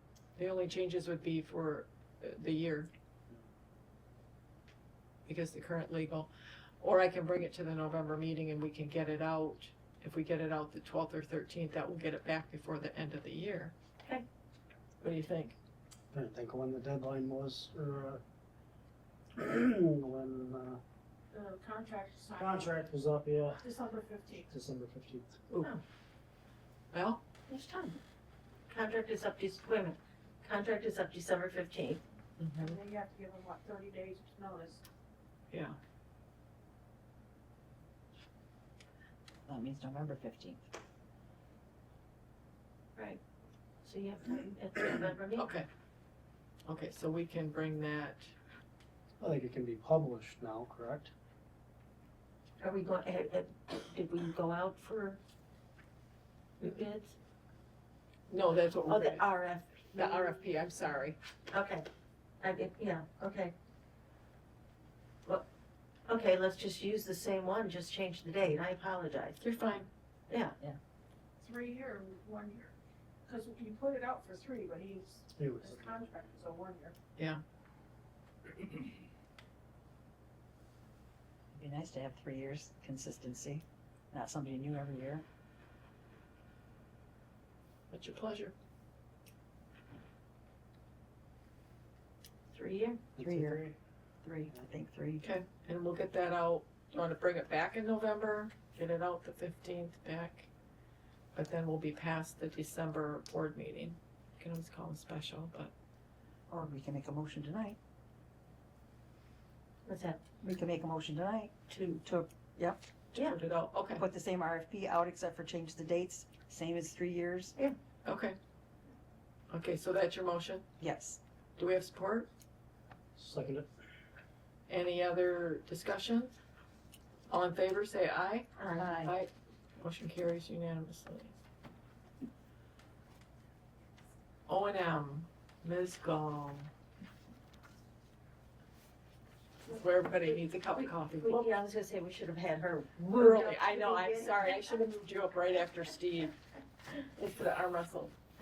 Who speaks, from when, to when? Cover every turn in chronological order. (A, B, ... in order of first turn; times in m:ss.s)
0:00.4-0:02.9 A
0:05.2-0:06.3 A
0:06.8-0:13.7 A
0:15.0-0:15.6 A
0:16.1-0:18.2 B
0:19.4-0:20.8 B
0:21.3-0:22.7 C
0:22.3-0:23.6 B
0:23.6-0:24.5 C
0:24.5-0:25.4 B
0:26.9-0:27.2 A
0:27.5-0:28.0 D
0:28.7-0:32.0 D
0:32.4-0:32.8 A
0:32.6-0:34.8 C
0:35.5-0:35.8 A
0:39.5-0:40.7 E
0:43.0-0:43.2 D
0:43.8-0:45.5 D
0:45.0-0:45.7 A
0:46.7-0:48.3 A
0:49.2-0:51.1 B
0:52.6-0:55.2 D
0:56.6-0:57.1 D
0:58.3-0:59.2 A
0:58.9-1:00.3 D
0:59.9-1:01.2 A
1:01.5-1:01.8 D
1:02.4-1:03.5 D
1:06.1-1:09.4 D
1:09.4-1:09.9 A
1:10.3-1:10.6 D
1:11.4-1:12.7 C
1:13.3-1:16.9 C
1:15.4-1:15.9 B
1:17.2-1:17.4 A
1:21.5-1:25.2 E
1:27.9-1:28.5 A
1:32.5-1:33.0 D
1:33.2-1:33.8 B
1:33.2-1:33.6 E
1:34.2-1:35.2 E
1:35.2-1:40.5 A
1:41.3-1:45.7 A
1:46.5-1:47.8 E
1:49.8-1:50.2 D
1:50.4-1:52.8 E
1:51.7-1:52.0 D
1:53.1-1:54.0 A
1:54.0-1:57.5 E
1:58.0-1:58.4 A
1:59.5-2:00.6 A
2:00.8-2:01.2 E
2:01.6-2:02.3 A
2:03.2-2:03.7 B
2:04.7-2:06.3 A
2:07.3-2:08.5 A
2:08.6-2:08.9 D
2:08.8-2:09.2 E
2:09.0-2:11.3 A
2:14.5-2:16.7 A
2:19.7-2:21.5 A
2:20.8-2:24.5 D
2:23.2-2:26.3 A
2:27.1-2:28.1 A